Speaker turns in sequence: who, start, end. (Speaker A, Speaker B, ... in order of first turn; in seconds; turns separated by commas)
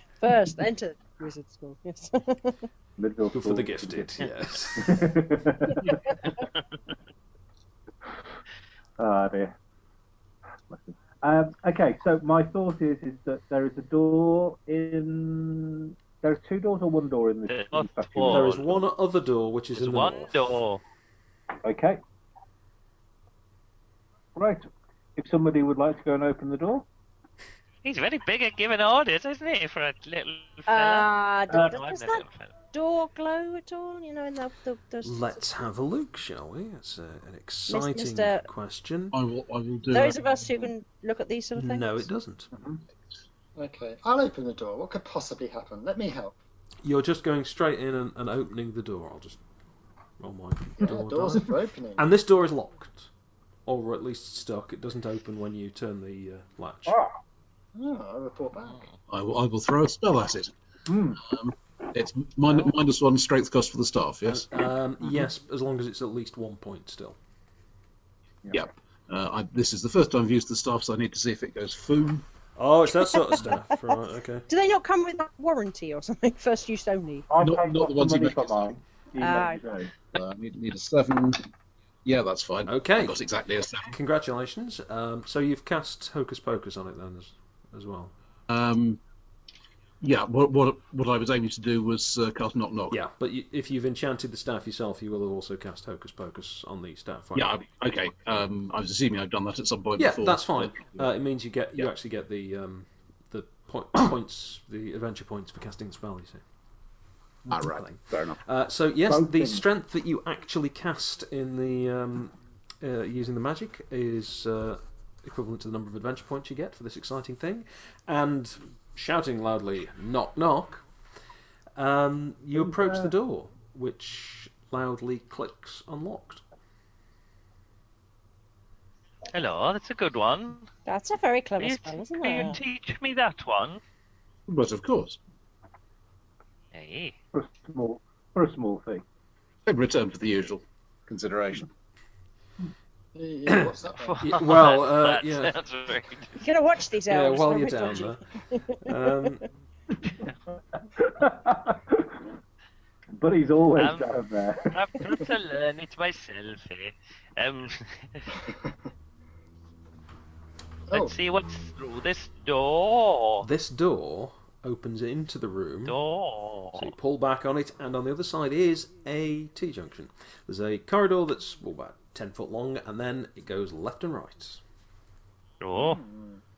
Speaker A: 0.2-2.6, Speaker B: 3.0-4.1, Speaker C: 3.3-5.1, Speaker B: 4.8-6.2, Speaker B: 9.0-9.5, Speaker B: 10.7-18.5, Speaker D: 17.5-18.8, Speaker C: 18.2-20.3, Speaker D: 19.7-20.8, Speaker B: 21.6-22.0, Speaker B: 24.4-26.9, Speaker D: 27.8-32.5, Speaker A: 30.7-35.5, Speaker C: 35.0-39.2, Speaker A: 37.7-38.5, Speaker E: 39.1-40.3, Speaker A: 39.9-42.0, Speaker C: 41.5-42.5, Speaker B: 42.5-42.8, Speaker F: 43.6-46.4, Speaker C: 46.8-49.4, Speaker C: 50.2-53.1, Speaker F: 50.8-52.1, Speaker C: 53.6-57.0, Speaker B: 56.9-57.2, Speaker F: 57.7-58.9, Speaker E: 59.1-60.5, Speaker B: 60.9-61.2, Speaker E: 61.2-64.5, Speaker C: 64.2-67.2, Speaker E: 68.5-72.2, Speaker C: 72.6-74.5, Speaker A: 73.0-73.5, Speaker A: 74.5-77.3, Speaker B: 77.3-79.9, Speaker E: 77.4-78.7, Speaker A: 79.2-79.6, Speaker E: 80.1-81.5, Speaker E: 82.0-84.0, Speaker C: 82.7-83.2, Speaker C: 83.8-88.1, Speaker E: 88.5-89.0, Speaker E: 90.0-93.0, Speaker C: 92.9-97.6, Speaker E: 97.3-101.0, Speaker C: 100.0-106.4, Speaker E: 107.5-108.4, Speaker C: 107.6-120.8, Speaker B: 109.1-109.6, Speaker C: 121.8-126.4, Speaker B: 122.5-123.1, Speaker D: 129.3-130.7, Speaker A: 130.8-132.6, Speaker D: 131.6-133.8, Speaker E: 134.5-135.2, Speaker D: 136.7-137.2, Speaker B: 137.3-139.0, Speaker E: 139.7-141.7, Speaker F: 143.1-144.4, Speaker C: 143.5-145.5, Speaker D: 144.0-146.4, Speaker A: 146.4-149.2, Speaker C: 147.1-148.2, Speaker C: 148.8-149.4, Speaker B: 150.9-152.2, Speaker B: 153.1-155.0, Speaker D: 153.8-154.1, Speaker D: 154.6-158.4, Speaker F: 160.9-161.1, Speaker D: 160.9-163.5, Speaker C: 163.4-166.0, Speaker D: 165.8-166.9, Speaker C: 166.8-174.6, Speaker D: 175.6-176.0, Speaker F: 175.7-176.4